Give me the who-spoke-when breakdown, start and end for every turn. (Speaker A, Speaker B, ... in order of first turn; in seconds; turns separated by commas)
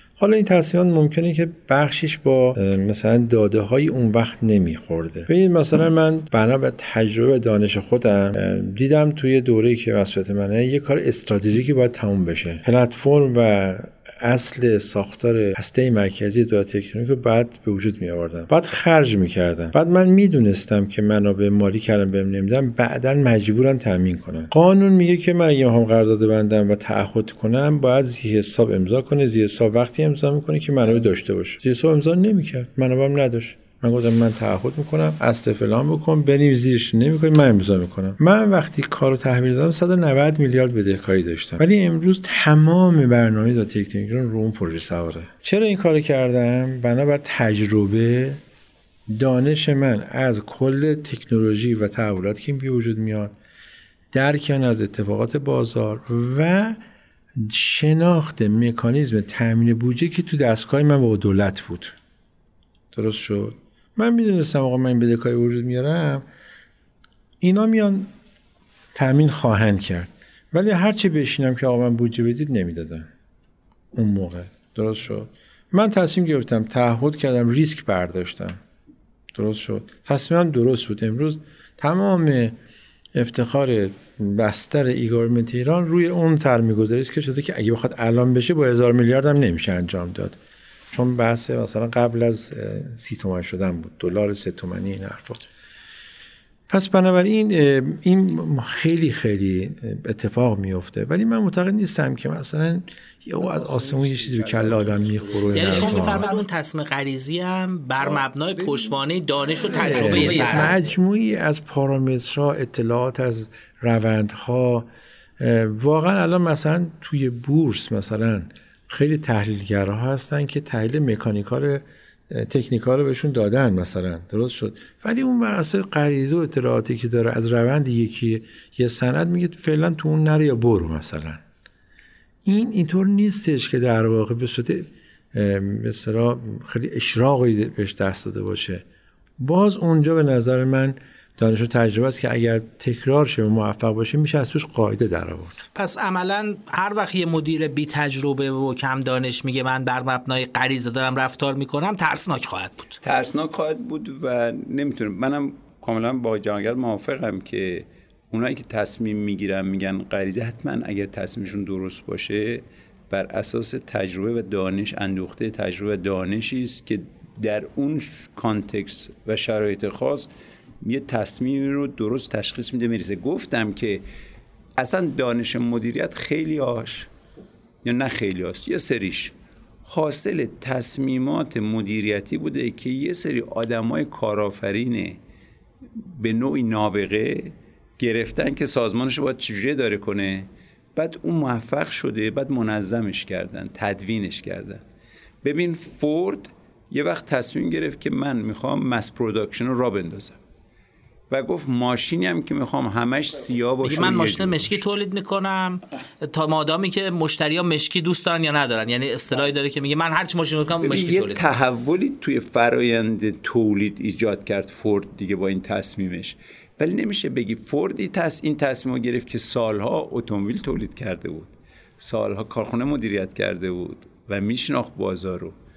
Speaker A: 0.2-48.4, Speaker A: 49.1-53.3, Speaker A: 54.1-56.8, Speaker A: 57.4-62.0, Speaker A: 62.9-66.2, Speaker A: 67.4-68.1, Speaker A: 68.9-73.1, Speaker A: 73.9-78.6, Speaker A: 79.3-82.5, Speaker A: 83.1-90.4, Speaker A: 90.9-95.4, Speaker A: 96.7-106.3, Speaker B: 105.5-110.8, Speaker A: 109.7-114.9, Speaker C: 110.0-110.7, Speaker A: 115.4-131.4, Speaker A: 132.4-138.8, Speaker A: 139.4-145.6, Speaker B: 145.7-153.0, Speaker C: 153.0-170.3, Speaker C: 170.8-174.0, Speaker C: 174.8-177.1, Speaker C: 177.8-179.3, Speaker C: 179.8-185.2, Speaker C: 185.9-194.8, Speaker C: 195.4-200.4, Speaker C: 201.3-204.8, Speaker B: 203.8-211.4, Speaker C: 210.8-225.6